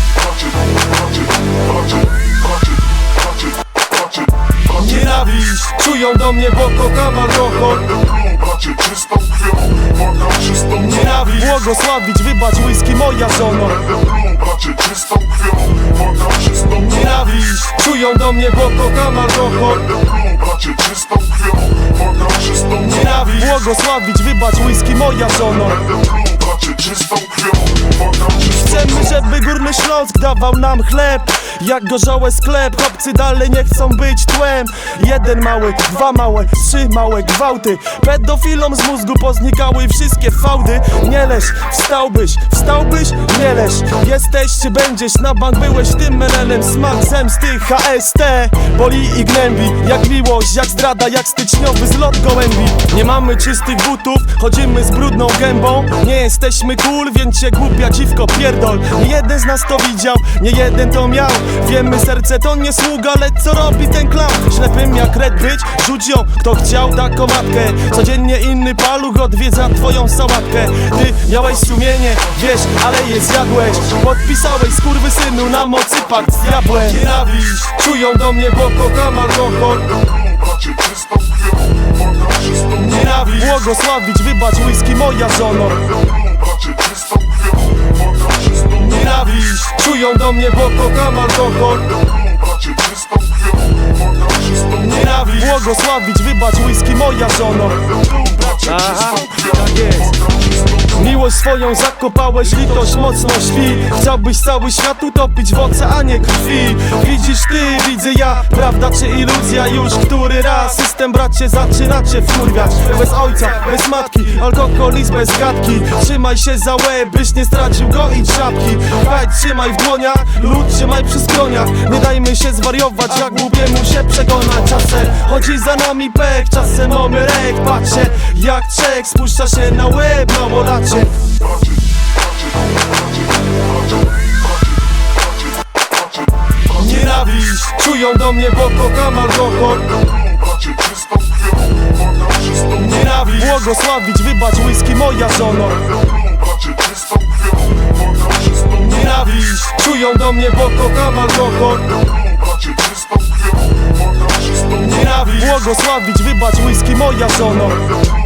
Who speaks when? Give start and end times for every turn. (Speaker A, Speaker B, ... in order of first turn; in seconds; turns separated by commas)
Speaker A: 4.7-8.2, Speaker B: 8.6-9.6, Speaker A: 10.6-14.0, Speaker B: 14.4-15.6, Speaker A: 16.6-20.1, Speaker B: 20.5-21.6, Speaker A: 22.5-26.0, Speaker B: 26.4-27.6, Speaker A: 28.4-80.2, Speaker B: 80.7-81.5, Speaker A: 82.6-86.1, Speaker B: 86.7-87.4, Speaker A: 88.6-92.2, Speaker B: 92.8-93.5, Speaker A: 94.6-100.2, Speaker A: 100.8-131.3, Speaker A: 136.7-140.2, Speaker B: 140.6-141.4, Speaker A: 142.6-146.1, Speaker B: 146.6-147.4, Speaker A: 148.6-152.2, Speaker B: 152.7-153.4, Speaker A: 154.6-158.1